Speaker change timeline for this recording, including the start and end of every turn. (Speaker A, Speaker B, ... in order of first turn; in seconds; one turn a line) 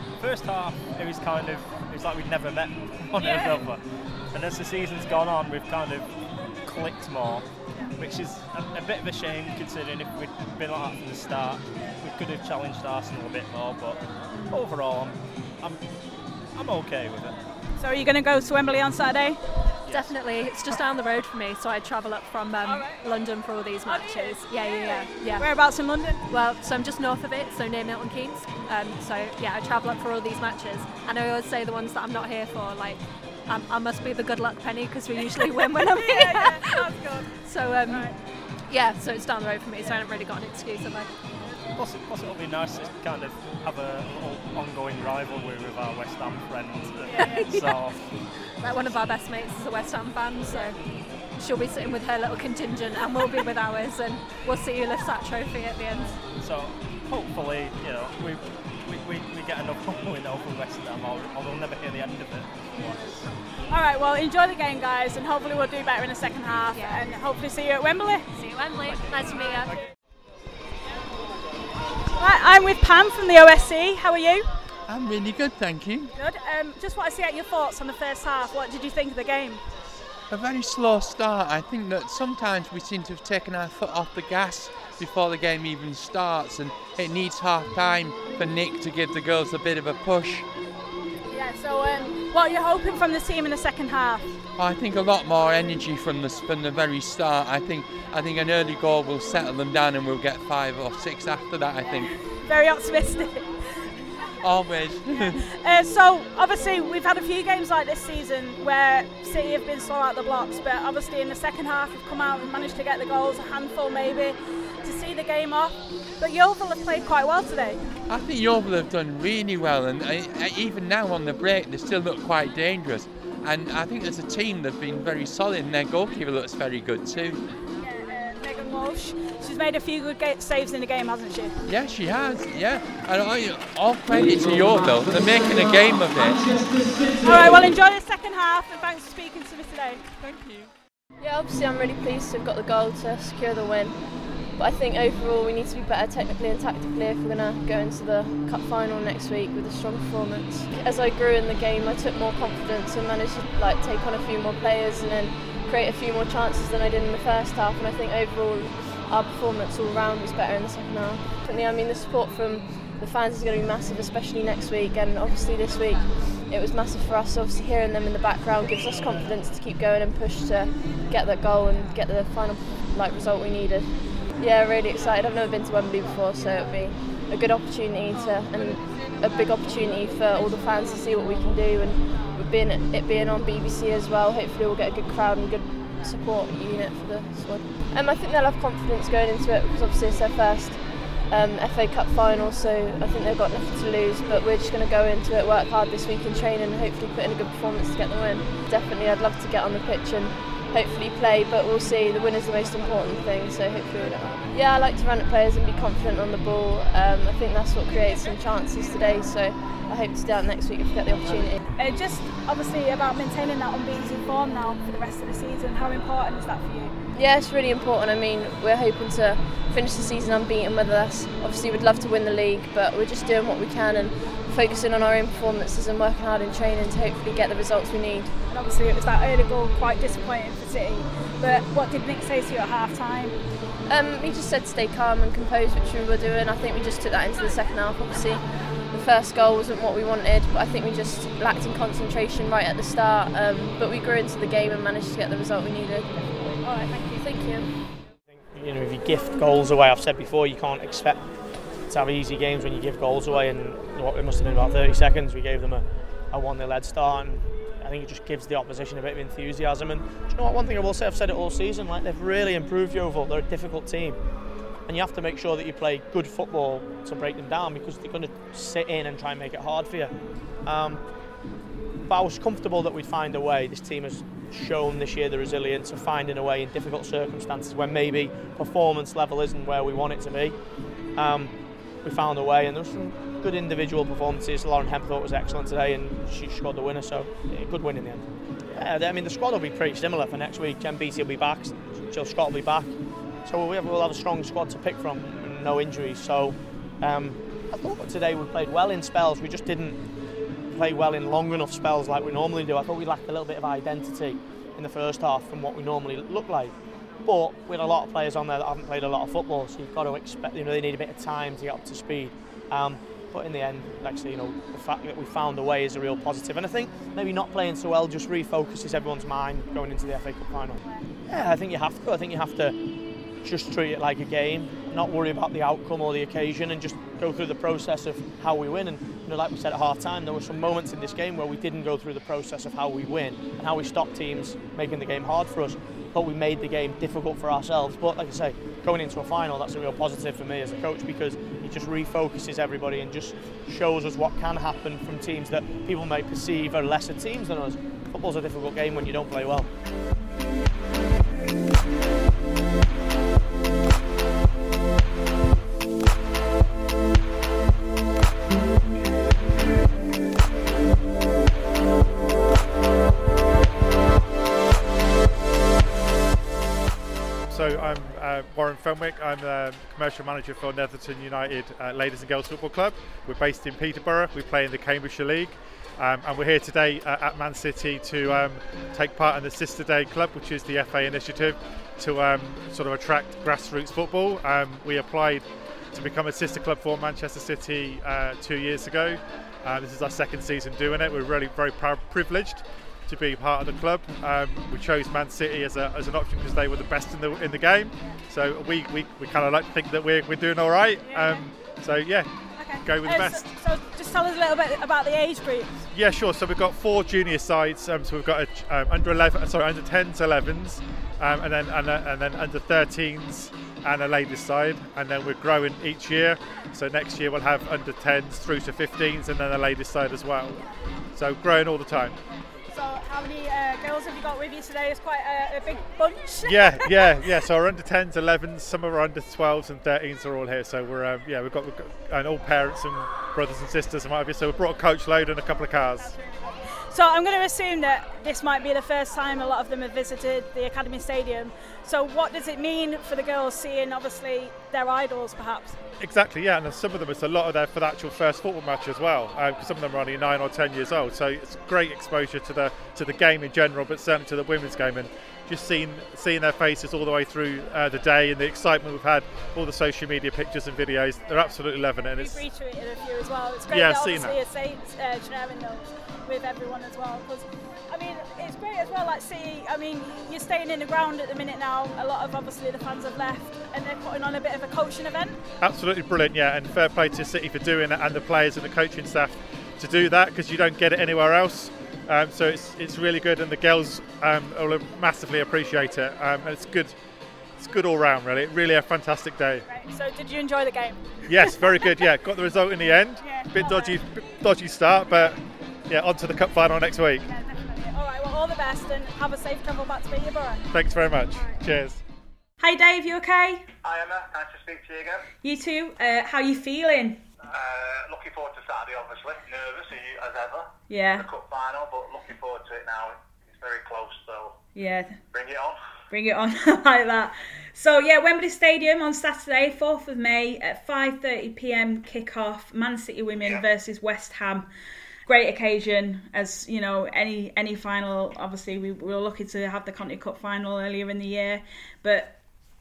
Speaker A: 0.2-3.8
Speaker A: 4.3-6.1
Speaker A: 6.6-15.8
Speaker A: 16.5-17.4
Speaker B: 17.8-19.4
Speaker A: 19.9-20.5
Speaker C: 19.9-25.5
Speaker B: 22.6-23.0
Speaker B: 23.8-26.2
Speaker C: 26.3-38.1
Speaker B: 35.8-37.3
Speaker B: 37.9-38.1
Speaker C: 38.6-41.1
Speaker A: 41.7-48.1
Speaker C: 47.1-47.7
Speaker C: 48.6-50.8
Speaker C: 51.3-56.2
Speaker A: 56.4-63.3
Speaker B: 63.7-68.3
Speaker C: 66.7-67.0
Speaker C: 68.3-69.8
Speaker A: 68.9-69.3
Speaker B: 72.2-74.4
Speaker D: 74.9-76.1
Speaker B: 76.2-79.6
Speaker D: 80.3-90.5
Speaker B: 91.3-94.3
Speaker D: 94.5-102.1
Speaker B: 101.8-103.8
Speaker D: 104.4-105.4
Speaker B: 105.5-117.8
Speaker D: 118.1-127.4
Speaker B: 127.8-131.5
Speaker D: 131.7-136.7
Speaker B: 137.2-140.7
Speaker E: 141.2-211.6
Speaker B: 211.8-216.9
Speaker E: 217.1-228.3
Speaker B: 228.5-233.3
Speaker E: 233.8-247.7
Speaker B: 246.6-247.3
Speaker F: 248.3-264.2
Speaker F: 264.9-271.4
Speaker F: 272.0-280.6
Speaker F: 281.1-322.8
Speaker F: 323.4-349.7
Speaker G: 367.5-402.3
Speaker B: 401.0-401.4
Speaker B: 402.6-405.9
Speaker G: 402.8-403.5
Speaker G: 405.9-420.6
Speaker G: 421.1-422.1
Speaker B: 422.7-427.3
Speaker G: 426.4-436.1
Speaker B: 436.0-445.8
Speaker G: 446.0-462.4
Speaker B: 462.1-475.4
Speaker G: 463.7-464.4
Speaker G: 475.6-487.0
Speaker G: 487.6-489.6
Speaker B: 489.7-491.3
Speaker G: 491.3-497.2
Speaker B: 493.2-494.0
Speaker B: 497.2-500.7
Speaker G: 500.7-502.0
Speaker H: 502.6-503.6
Speaker I: 503.8-505.3
Speaker H: 505.4-507.2
Speaker I: 507.5-514.6
Speaker H: 510.9-511.3
Speaker H: 514.7-515.2
Speaker I: 515.3-515.8
Speaker H: 516.1-524.7
Speaker H: 525.3-532.4